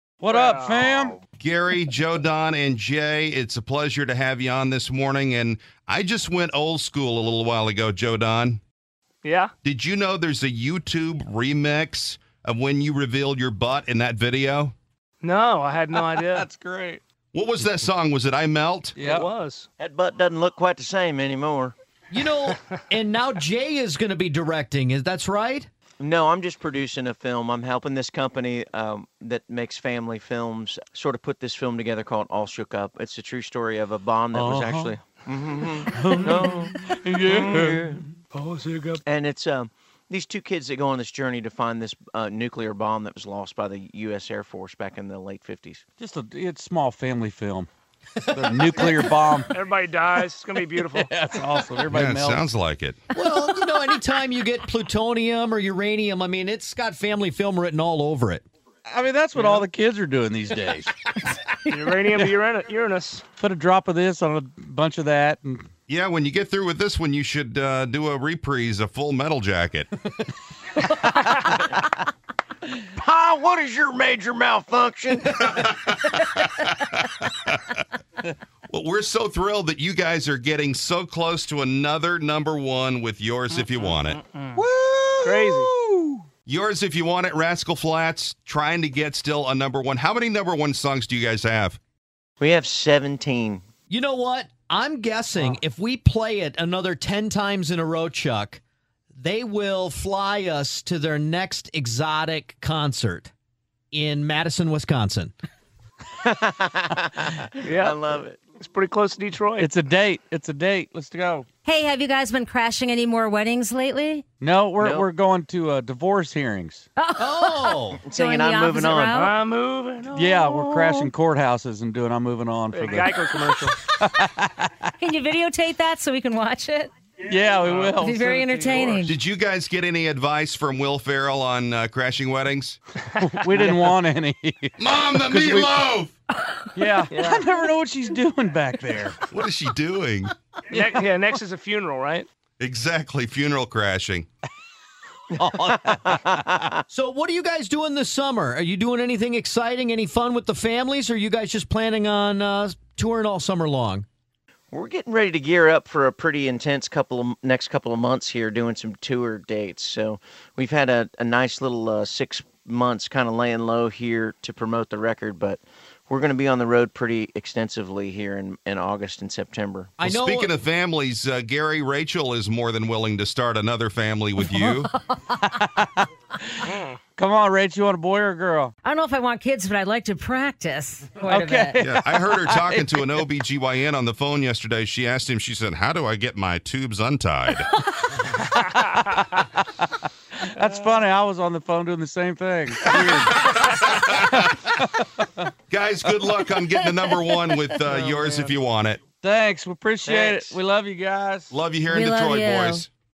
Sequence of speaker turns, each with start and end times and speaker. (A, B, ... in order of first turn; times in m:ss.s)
0:00.2-0:01.2 A
0:00.3-0:01.2 B
0:01.4-0:08.6 C
0:09.2-0:09.5 B
0:09.6-0:14.7 C
0:15.2-0:16.5 B
0:15.9-0:17.0 A
0:17.3-0:19.0 C
0:19.0-0:19.3 A
0:19.0-0:19.7 B
0:19.8-0:21.8 D
0:22.1-0:25.7 E
0:26.0-0:36.8 D
0:34.3-0:34.9 A
0:35.9-0:38.1 A
0:37.3-0:39.0 B
0:39.0-0:45.8 D
0:46.0-0:47.7 A
0:48.2-0:49.1 E
0:48.3-0:49.5 A
0:49.5-0:51.1 B
0:50.9-0:52.5 A
0:51.9-0:53.0 C
0:53.1-0:58.4 E
0:58.9-1:01.1 A
0:59.4-0:59.6 B
1:01.7-1:03.2 B
1:02.1-1:02.3 A
1:03.4-1:05.7 A
1:05.9-1:09.9 C
1:12.8-1:15.6 D
1:15.5-1:17.6 C
1:18.7-1:24.2 C
1:23.8-1:24.6 B
1:24.6-1:26.2 A
1:25.2-1:25.7 B
1:26.5-1:31.8 C
1:32.4-1:33.6 D
1:33.9-1:38.6 E
1:39.2-1:43.3 E
1:43.9-1:45.3 E
1:46.2-1:48.4 D
1:47.6-1:49.7 B
1:49.6-1:51.5 A
1:51.6-1:54.2 F
1:54.4-1:56.9 A
1:54.8-1:55.1 D
1:57.0-1:59.3 F
1:57.2-1:58.0 E
1:58.0-1:59.3 D
1:59.1-2:01.1 B
2:00.1-2:04.9 A
2:00.4-2:01.1 F
2:02.7-2:03.8 B
2:05.0-2:07.0 F
2:07.3-2:09.1 A
2:07.6-2:09.1 B
2:08.0-2:09.2 F
2:09.1-2:12.8 C
2:13.2-2:15.9 A
2:14.8-2:16.1 C
2:16.8-2:19.2 A
2:17.1-2:17.4 B
2:19.3-2:20.3 C
2:20.7-2:22.3 B
2:22.6-2:24.3 C
2:25.4-2:26.8 D
2:25.4-2:26.2 A
2:26.9-2:34.0 E
2:34.7-2:50.0 D
2:50.0-2:50.5 E
2:50.0-2:54.9 C
2:54.4-2:55.2 F
2:55.4-2:58.7 A
2:58.8-3:01.8 F
3:01.2-3:03.2 A
3:01.8-3:07.7 C
3:07.7-3:08.1 F
3:08.2-3:15.5 A
3:13.4-3:14.5 C
3:15.7-3:19.0 C
3:17.1-3:17.4 F
3:17.9-3:18.5 A
3:19.1-3:21.5 A
3:20.0-3:20.6 D
3:21.5-3:22.9 C
3:21.9-3:22.9 F